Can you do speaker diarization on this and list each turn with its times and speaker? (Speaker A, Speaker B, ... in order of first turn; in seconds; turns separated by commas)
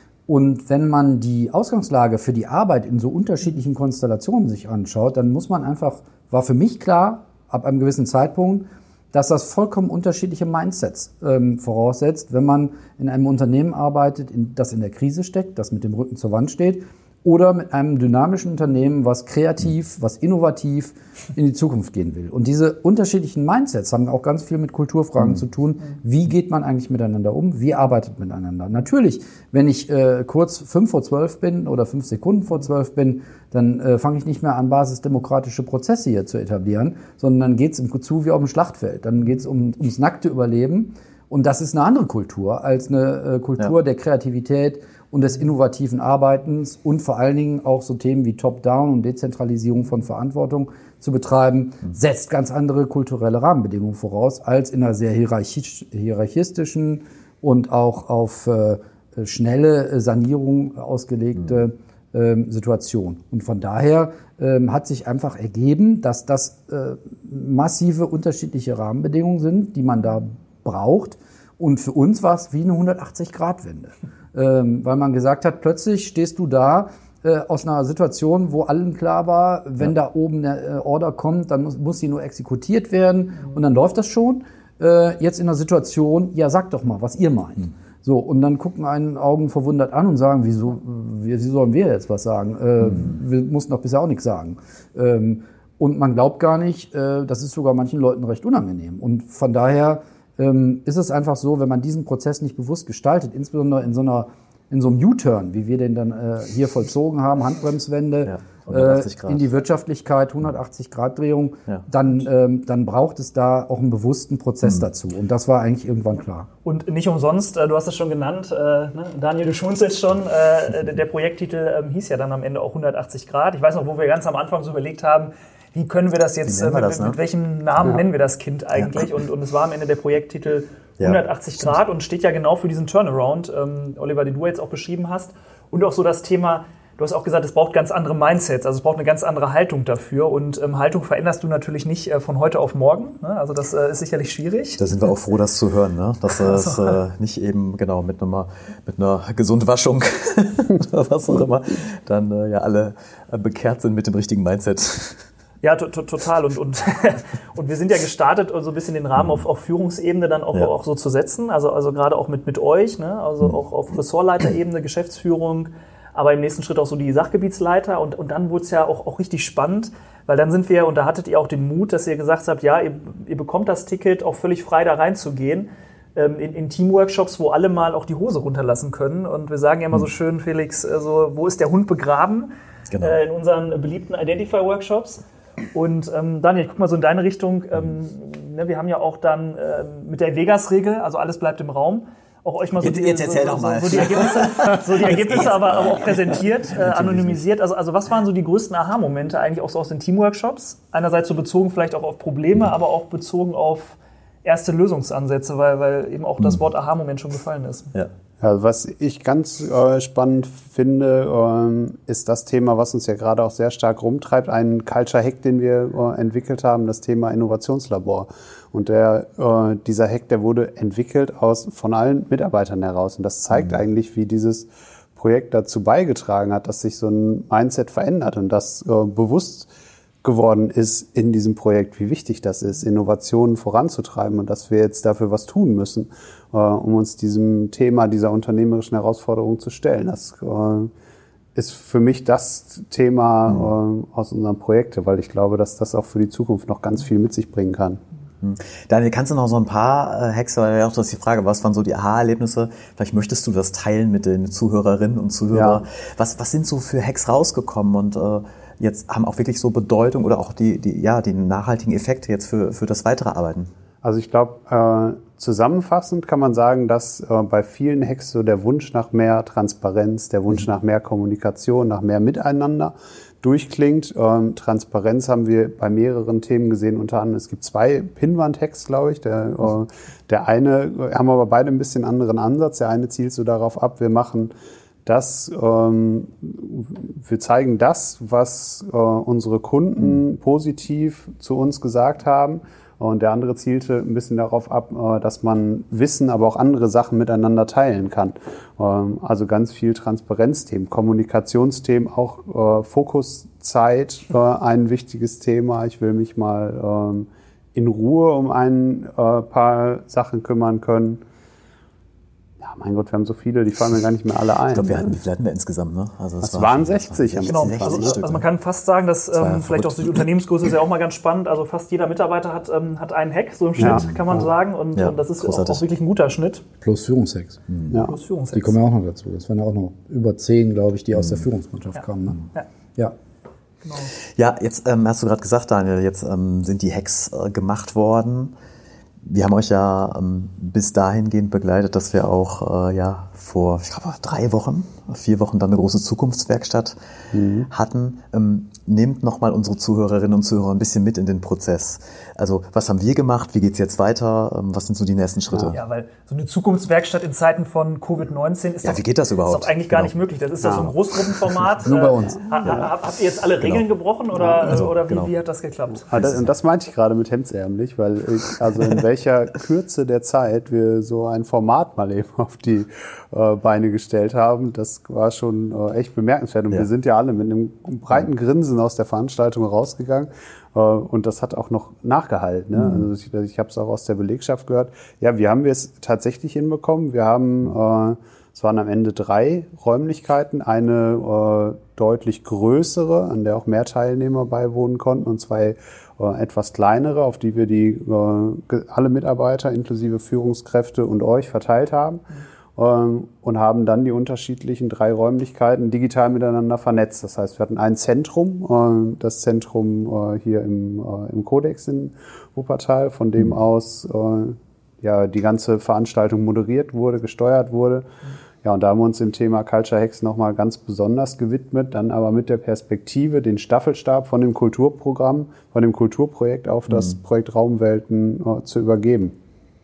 Speaker A: 0.3-116.5, Speaker B: 108.2-109.5, Speaker C: 116.6-144.8, Speaker B: 126.5-127.2, Speaker B: 144.8-155.2, Speaker C: 146.4-147.0, Speaker C: 155.6-185.2, Speaker B: 182.9-183.2, Speaker C: 185.7-207.9, Speaker B: 192.8-197.4, Speaker D: 208.4-229.7, Speaker D: 230.2-240.9, Speaker D: 241.5-248.0, Speaker B: 248.4-263.7, Speaker D: 255.5-255.8, Speaker D: 264.0-284.5, Speaker D: 285.1-311.2, Speaker D: 312.6-315.2, Speaker B: 314.7-318.4, Speaker D: 316.4-318.2, Speaker C: 317.5-326.6, Speaker B: 319.4-320.3, Speaker D: 323.8-324.4, Speaker B: 323.8-324.1, Speaker B: 324.9-325.8, Speaker A: 326.8-327.6, Speaker B: 327.7-328.0, Speaker C: 328.0-328.8, Speaker A: 328.5-332.4, Speaker B: 331.1-331.4, Speaker C: 333.8-334.1, Speaker B: 334.4-338.5, Speaker B: 339.2-347.0, Speaker D: 347.3-347.7, Speaker B: 347.7-355.8, Speaker C: 355.7-366.1, Speaker B: 358.8-360.1, Speaker D: 360.6-360.9, Speaker A: 361.9-362.4, Speaker D: 364.4-364.7, Speaker B: 364.6-365.3, Speaker D: 366.0-418.1, Speaker B: 366.1-366.4, Speaker B: 382.7-383.1, Speaker D: 418.6-429.4